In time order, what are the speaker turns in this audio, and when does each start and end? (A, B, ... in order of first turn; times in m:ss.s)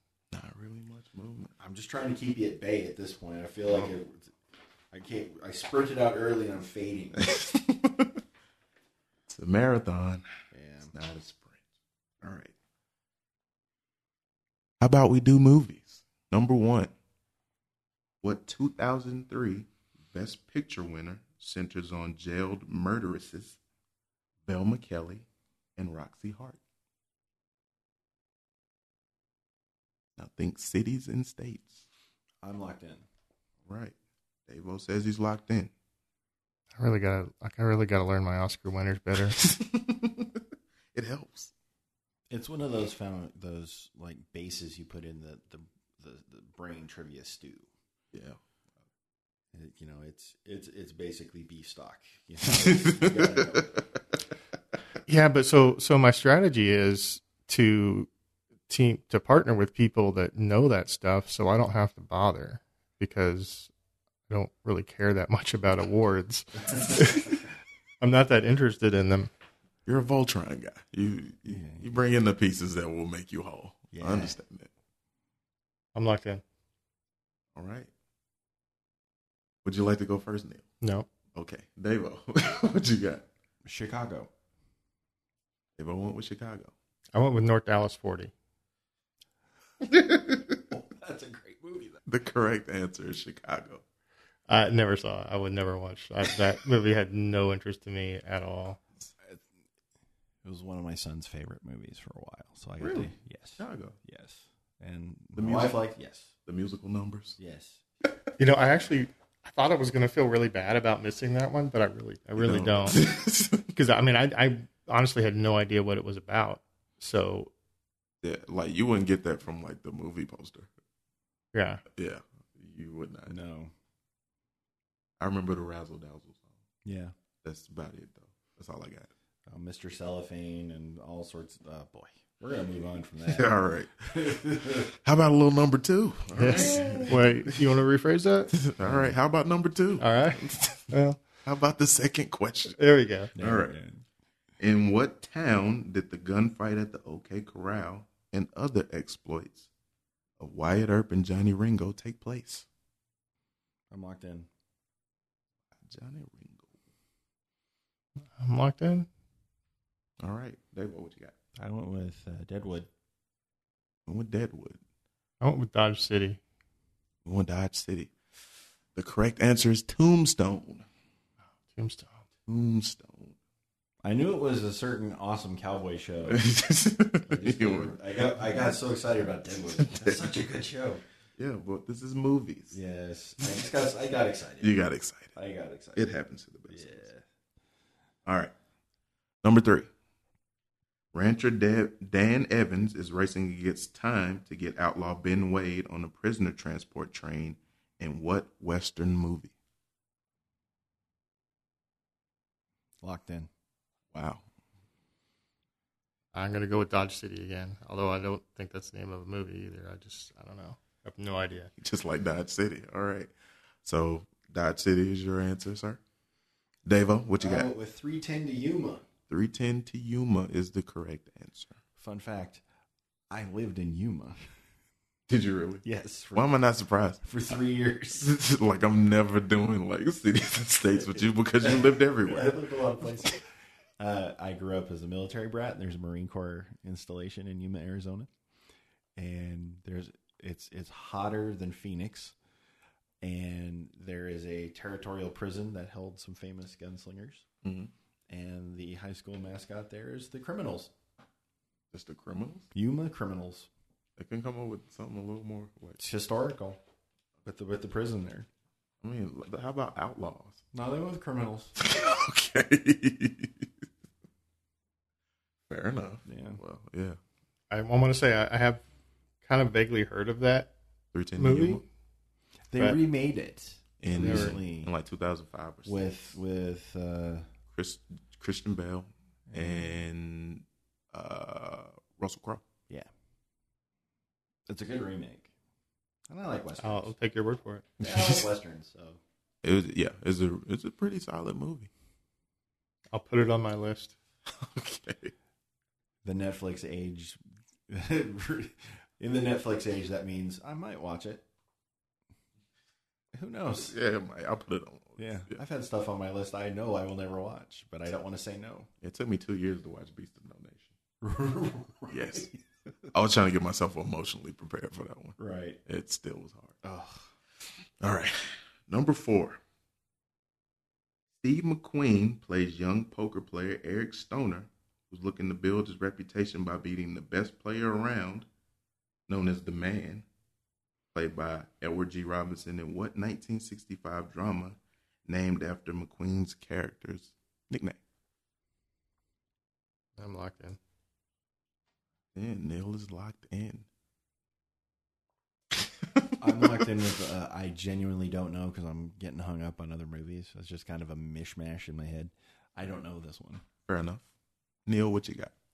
0:00.3-0:01.5 A
0:01.6-0:04.3 B
0:04.9-0:07.2 B
0:07.2-0:08.1 A
0:09.3-0:10.2 A
0:10.5-0:10.9 B
0:10.9-0:11.6 A
0:12.2-0:12.5 A
0:14.8-0:16.9 A
0:18.2-0:23.6 A
0:24.4-0:26.6 A
0:30.2-0:31.8 A
0:32.4-0:33.0 B
0:33.6-0:33.9 A
0:34.5-0:35.7 A
0:36.8-0:39.4 C
0:39.4-0:40.4 A
0:40.9-0:41.5 A
0:42.3-0:47.7 B
0:48.1-0:48.4 A
0:49.5-0:53.8 B
0:52.5-0:53.8 A
0:55.1-0:58.1 C
0:58.7-1:03.7 C
1:04.3-1:07.4 C
1:08.0-1:09.3 C
1:09.8-1:14.7 A
1:11.4-1:12.0 B
1:13.9-1:14.4 B
1:15.9-1:16.4 C
1:17.5-1:17.9 A
1:19.6-1:20.6 A
1:20.8-1:21.1 C
1:21.3-1:23.2 A
1:23.6-1:24.3 B
1:25.8-1:26.7 A
1:27.1-1:28.3 C
1:29.8-1:30.6 A
1:30.7-1:32.0 B
1:32.0-1:33.8 A
1:34.5-1:38.8 C
1:40.4-1:46.3 B
1:42.8-1:44.0 A
1:45.4-1:45.8 A
1:46.4-1:47.4 A
1:47.4-1:47.8 B
1:48.4-1:53.0 C
1:52.4-1:53.7 A
1:53.7-1:57.5 C
1:58.2-2:00.7 A
2:01.5-2:01.8 C
2:01.9-2:03.4 A
2:03.2-2:03.7 B
2:05.2-2:06.5 A
2:06.8-2:07.1 B
2:07.4-2:09.1 A
2:09.5-2:13.5 B
2:13.3-2:17.5 A
2:14.0-2:14.9 B
2:16.4-2:18.5 C
2:16.5-2:17.2 B
2:18.6-2:20.9 A
2:18.8-2:19.2 B
2:20.0-2:21.2 C
2:21.4-2:22.8 A
2:22.8-2:23.3 C
2:23.3-2:24.0 B
2:23.4-2:23.7 A
2:24.6-2:29.7 A
2:30.4-2:32.6 A
2:33.9-2:34.5 B
2:35.8-2:36.7 A
2:38.4-2:39.1 C
2:40.2-2:41.3 A
2:41.6-2:42.9 B
2:44.0-2:44.8 A
2:45.4-2:46.4 C
2:47.2-2:48.1 A
2:48.9-2:50.8 A
2:51.7-2:52.2 C
2:52.5-2:53.4 A
2:54.0-2:56.4 B
2:56.2-2:58.4 A
2:57.2-3:01.0 B
2:59.7-3:00.3 A
3:01.4-3:02.8 A
3:02.7-3:04.8 B
3:04.6-3:05.3 A
3:05.3-3:06.1 B
3:05.9-3:07.1 A
3:06.7-3:07.2 B
3:08.2-3:08.5 A
3:09.4-3:09.9 A
3:11.1-3:19.5 A
3:23.0-3:23.5 B
3:24.1-3:24.4 A
3:26.3-3:31.7 C
3:31.8-3:33.3 A
3:33.8-3:36.0 A
3:36.8-3:37.7 A
3:37.4-3:39.1 B
3:39.3-3:41.8 A
3:42.0-3:42.6 B
3:43.3-3:44.4 B
3:45.3-3:47.2 A
3:45.8-3:46.5 B
3:47.2-3:48.2 B
3:48.1-3:52.6 A
3:51.2-3:53.4 B
3:54.0-3:58.3 B
3:59.2-4:02.3 B
4:03.2-4:07.4 B
4:07.6-4:07.9 A
4:08.3-4:10.9 B
4:11.9-4:12.7 A
4:12.7-4:13.7 B
4:14.2-4:16.0 A
4:16.0-4:16.8 B
4:17.4-4:18.5 B
4:19.0-4:20.6 A
4:20.7-4:21.7 B
4:21.8-4:23.7 A
4:25.7-4:27.2 A
4:26.2-4:26.6 B
4:27.7-4:28.8 C
4:29.4-4:30.7 C
4:31.1-4:31.8 A
4:31.4-4:31.8 C
4:32.7-4:34.9 B
4:34.0-4:36.2 A
4:34.1-4:34.6 C
4:35.8-4:37.5 B
4:37.7-4:42.6 A
4:39.5-4:40.0 B
4:44.7-4:45.5 B
4:46.3-4:47.1 B
4:46.8-4:47.9 C
4:48.0-4:49.2 B
4:48.0-4:48.4 A
4:49.6-4:51.9 A
4:53.1-4:54.1 C
4:54.5-4:55.3 A
4:56.2-5:01.4 B
5:03.3-5:03.9 B
5:03.7-5:05.6 A
5:05.2-5:08.9 B
5:09.0-5:11.0 A
5:11.2-5:12.5 B
5:12.1-5:12.5 A
5:13.1-5:16.8 A
5:15.4-5:15.8 B
5:16.8-5:17.3 B
5:18.0-5:19.6 A
5:21.4-5:28.5 A
5:29.3-5:30.2 A
5:31.1-5:38.0 A
5:40.2-5:40.8 C
5:42.3-5:43.9 A
5:46.4-5:53.6 B
5:53.8-5:54.3 A
5:54.8-5:55.5 A